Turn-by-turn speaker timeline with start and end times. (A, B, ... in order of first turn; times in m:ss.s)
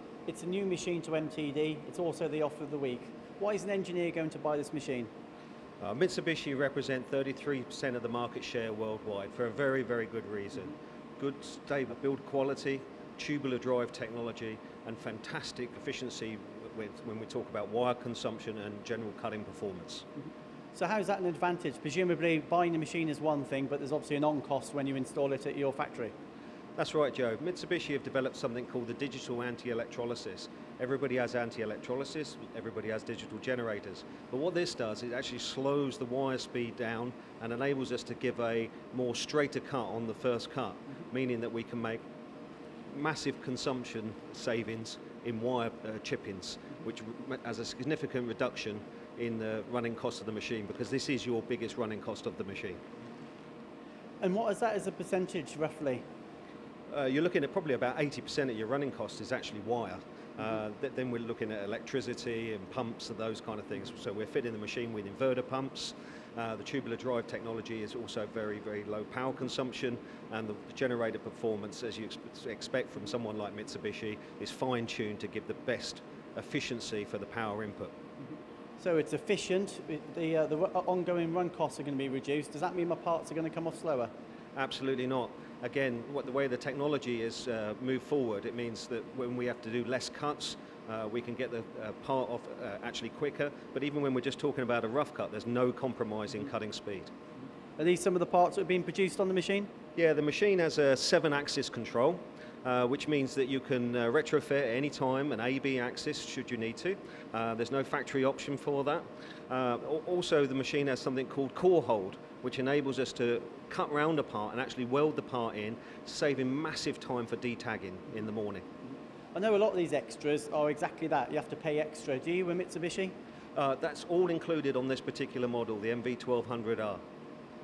0:00.3-0:05.1 A
0:05.8-0:20.1 B
0:20.7-0:26.1 A
0:26.8-0:42.0 B
0:42.9-0:52.8 B
0:54.2-0:56.0 A
0:56.9-1:17.9 B
1:18.8-1:24.1 A
1:24.6-1:37.1 B
1:37.8-1:39.7 A
1:40.0-1:58.6 B
1:59.4-2:03.2 A
2:03.6-2:07.0 B